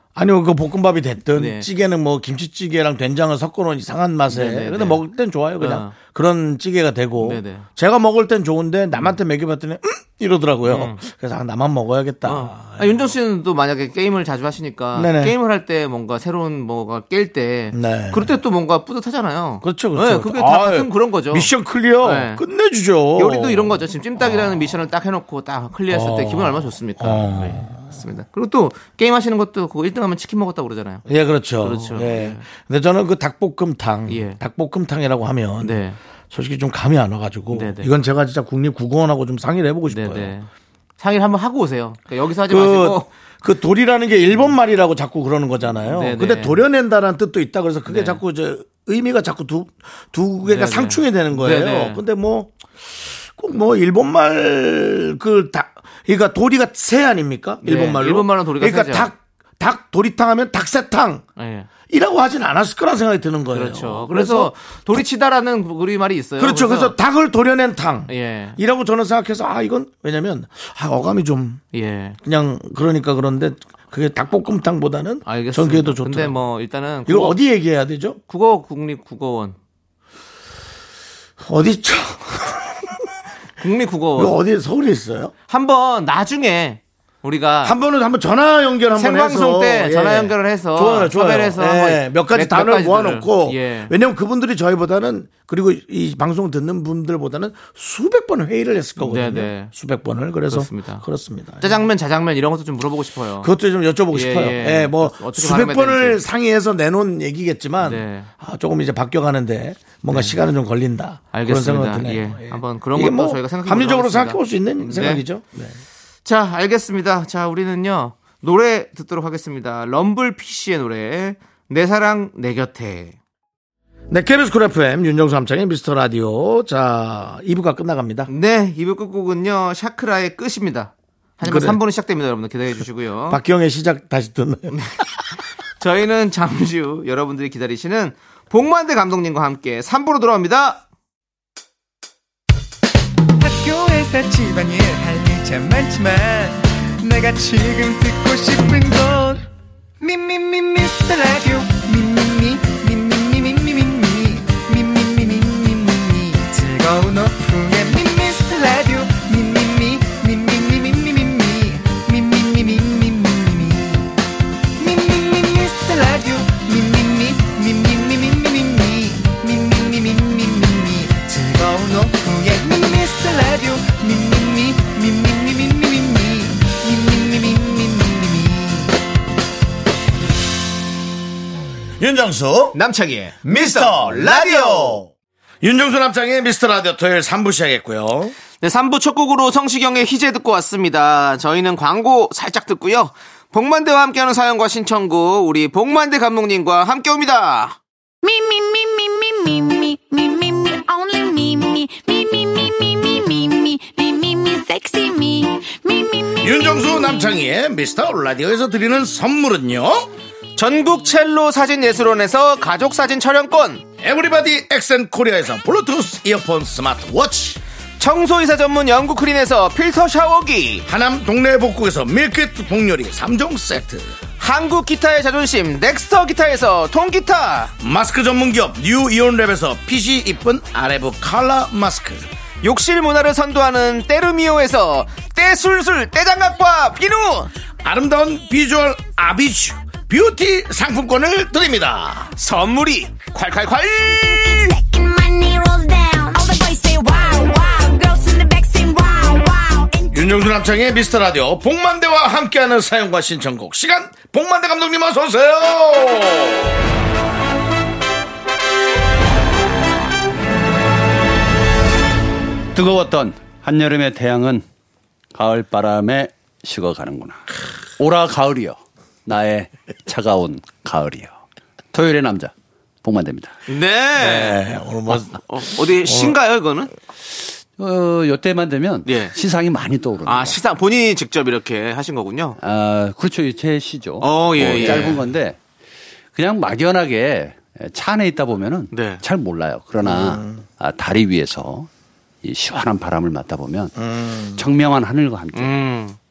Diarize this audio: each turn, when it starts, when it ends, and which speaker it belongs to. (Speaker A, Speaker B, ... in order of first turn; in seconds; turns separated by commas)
Speaker A: 0.1-13.1, Speaker B: 1.3-1.7, Speaker B: 4.3-5.0, Speaker B: 5.6-5.9, Speaker B: 7.2-7.7, Speaker B: 10.6-11.0, Speaker B: 12.2-22.4, Speaker A: 14.9-15.3, Speaker A: 17.7-18.3, Speaker A: 19.6-24.7, Speaker B: 23.1-31.0, Speaker A: 25.9-27.9, Speaker A: 31.1-40.3, Speaker B: 31.6-32.4, Speaker B: 34.1-34.4, Speaker B: 35.6-36.0, Speaker B: 37.5-37.9, Speaker B: 39.9-43.1, Speaker A: 42.5-52.5, Speaker B: 45.9-46.6, Speaker B: 47.9-48.2, Speaker B: 50.4-52.0, Speaker A: 53.4-61.2, Speaker B: 57.6-59.1, Speaker B: 61.4-61.7, Speaker A: 61.9-64.5, Speaker B: 63.5-66.9, Speaker A: 66.4-71.6, Speaker B: 68.1-68.6, Speaker B: 71.7-72.2, Speaker A: 72.2-76.4, Speaker B: 75.2-77.4, Speaker A: 77.1-78.2, Speaker B: 78.3-79.5, Speaker A: 81.4-83.1, Speaker B: 83.6-84.4, Speaker A: 84.2-85.3, Speaker B: 85.5-87.8, Speaker A: 87.6-101.9, Speaker B: 89.0-93.9, Speaker B: 99.0-99.7, Speaker B: 100.5-101.0, Speaker B: 101.6-103.5, Speaker A: 103.4-115.8, Speaker B: 104.1-106.2, Speaker B: 107.8-108.3, Speaker B: 111.3-115.2, Speaker B: 116.2-123.2, Speaker A: 124.1-128.3, Speaker B: 128.3-133.4, Speaker A: 131.4-131.8, Speaker A: 133.3-134.8, Speaker B: 135.8-140.8, Speaker C: 143.4-149.4, Speaker C: 150.0-164.1, Speaker C: 164.8-178.9, Speaker A: 182.0-182.8, Speaker B: 182.7-185.0, Speaker A: 183.4-185.1, Speaker A: 185.6-188.3, Speaker B: 188.6-197.8, Speaker D: 198.2-207.2, Speaker A: 206.4-210.1, Speaker B: 210.6-213.8, Speaker A: 214.0-217.6, Speaker B: 218.0-220.8, Speaker A: 220.8-224.1, Speaker B: 224.4-227.7, Speaker A: 227.8-232.3, Speaker B: 232.6-237.5, Speaker A: 237.8-242.3, Speaker B: 242.4-244.7, Speaker D: 244.0-250.2, Speaker A: 250.1-256.7, Speaker E: 262.7-264.6, Speaker E: 265.3-271.3, Speaker E: 271.9-272.5, Speaker E: 273.0-273.6, Speaker B: 273.7-274.6, Speaker A: 274.2-276.3, Speaker B: 275.4-276.9, Speaker E: 277.8-280.6, Speaker B: 279.1-279.3, Speaker B: 280.2-282.6, Speaker E: 282.6-285.6, Speaker B: 284.2-285.2, Speaker E: 286.3-291.9, Speaker B: 288.9-289.2, Speaker A: 290.0-290.6, Speaker E: 292.4-293.9, Speaker A: 293.9-294.7, Speaker E: 294.5-295.7, Speaker B: 295.5-296.2